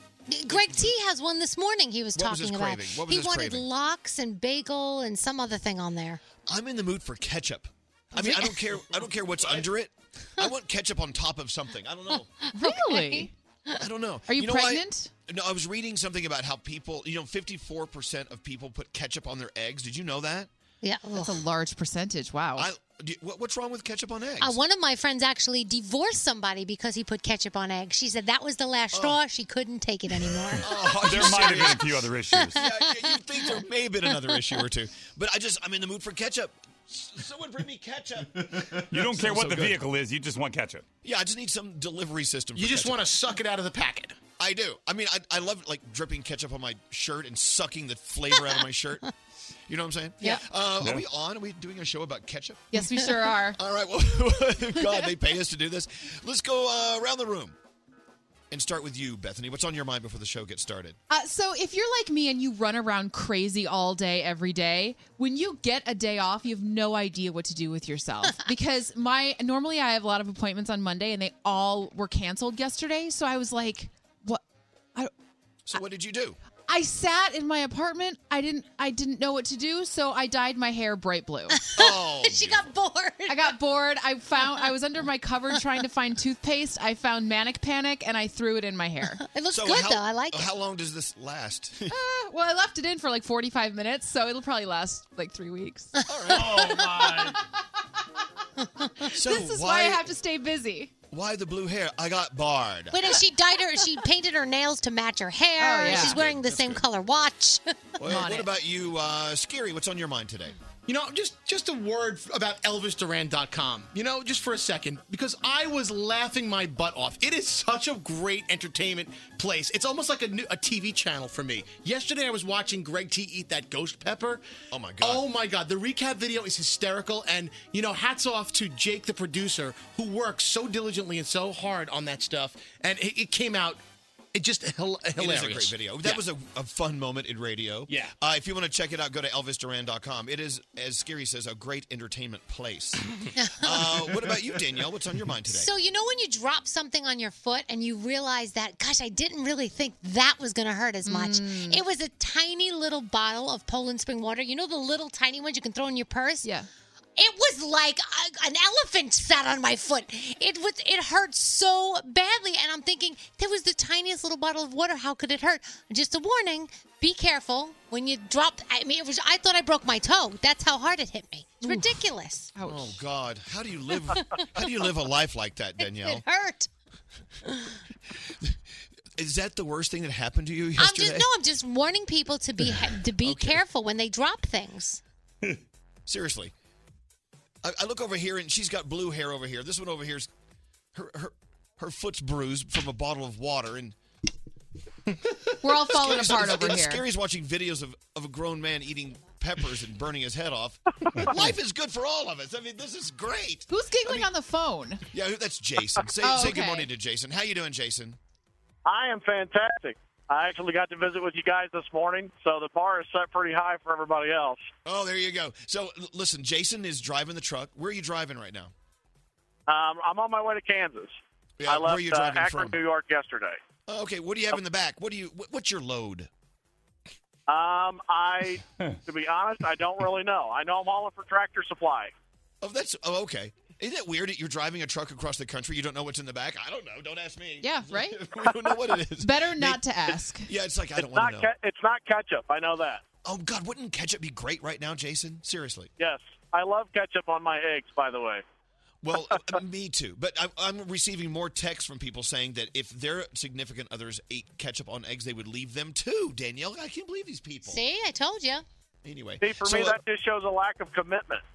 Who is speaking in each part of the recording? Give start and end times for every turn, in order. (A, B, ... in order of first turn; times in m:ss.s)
0:00.3-0:06.2 A
0:00.5-0:01.0 B
0:02.2-0:03.7 B
0:06.5-0:12.3 B
0:08.2-0:08.8 A
0:12.5-0:13.3 C
0:12.6-0:13.3 A
0:13.8-0:20.5 B
0:14.3-0:15.1 C
0:20.8-0:21.4 A
0:21.2-0:22.7 C
0:22.6-0:24.6 B
0:24.4-0:33.2 A
0:28.9-0:29.2 B
0:30.6-0:39.8 B
0:31.0-0:32.6 D
0:38.9-0:40.8 D
0:41.0-0:43.1 B
0:42.6-0:44.0 E
0:44.4-0:49.1 B
0:49.7-0:52.7 B
0:50.8-0:51.0 D
0:52.7-0:53.6 C
0:53.6-0:57.6 B
0:54.8-0:55.0 C
0:58.5-1:01.0 B
1:01.1-1:14.4 C
1:15.7-1:16.4 B
1:16.7-1:21.6 C
1:21.6-1:23.5 A
1:21.8-1:22.7 B
1:23.3-1:29.2 C
1:29.3-1:30.5 A
1:29.5-1:32.0 B
1:31.9-1:35.9 C
1:36.0-1:37.1 A
1:36.1-1:37.3 B
1:38.6-1:39.1 A
1:39.1-1:40.0 B
1:39.2-1:40.9 C
1:41.1-1:43.1 B
1:42.9-1:47.7 A
1:45.6-1:46.2 C
1:45.9-1:46.8 B
1:48.0-1:50.6 B
1:48.0-1:48.5 C
1:50.9-1:57.9 E
1:58.5-2:04.2 E
2:04.7-2:05.2 B
2:05.1-2:06.8 E
2:07.3-2:10.8 E
2:11.7-2:13.8 E
2:14.4-2:15.6 E
2:15.2-2:23.1 B
2:23.4-2:24.2 A
2:23.6-2:25.7 B
2:25.5-2:36.5 A
2:31.0-2:31.8 C
2:37.2-2:52.5 A
2:52.6-2:53.0 C
2:52.6-2:56.2 B
2:54.4-2:54.7 A
2:55.8-2:56.7 A
2:57.5-2:57.8 A
2:59.2-3:01.3 B
3:00.8-3:05.0 A
3:03.2-3:03.6 B
3:06.1-3:06.5 B
3:07.6-3:10.3 B
3:10.9-3:14.0 B
3:15.6-3:17.0 C
3:15.8-3:24.3 B
3:23.7-3:25.0 C
3:25.1-3:28.2 B
3:26.2-3:26.9 C
3:28.8-3:34.7 F
3:34.8-3:38.7 B
3:39.7-3:43.6 F
3:41.6-3:42.8 B
3:43.9-3:46.3 B
3:47.5-3:52.1 F
3:52.6-3:59.8 B
3:57.6-4:00.5 C
4:00.4-4:01.5 B
4:01.0-4:03.0 F
4:03.2-4:05.9 B
4:06.0-4:08.4 F
4:09.0-4:17.8 B
4:17.7-4:18.6 A
4:19.0-4:20.0 B
4:19.4-4:21.4 F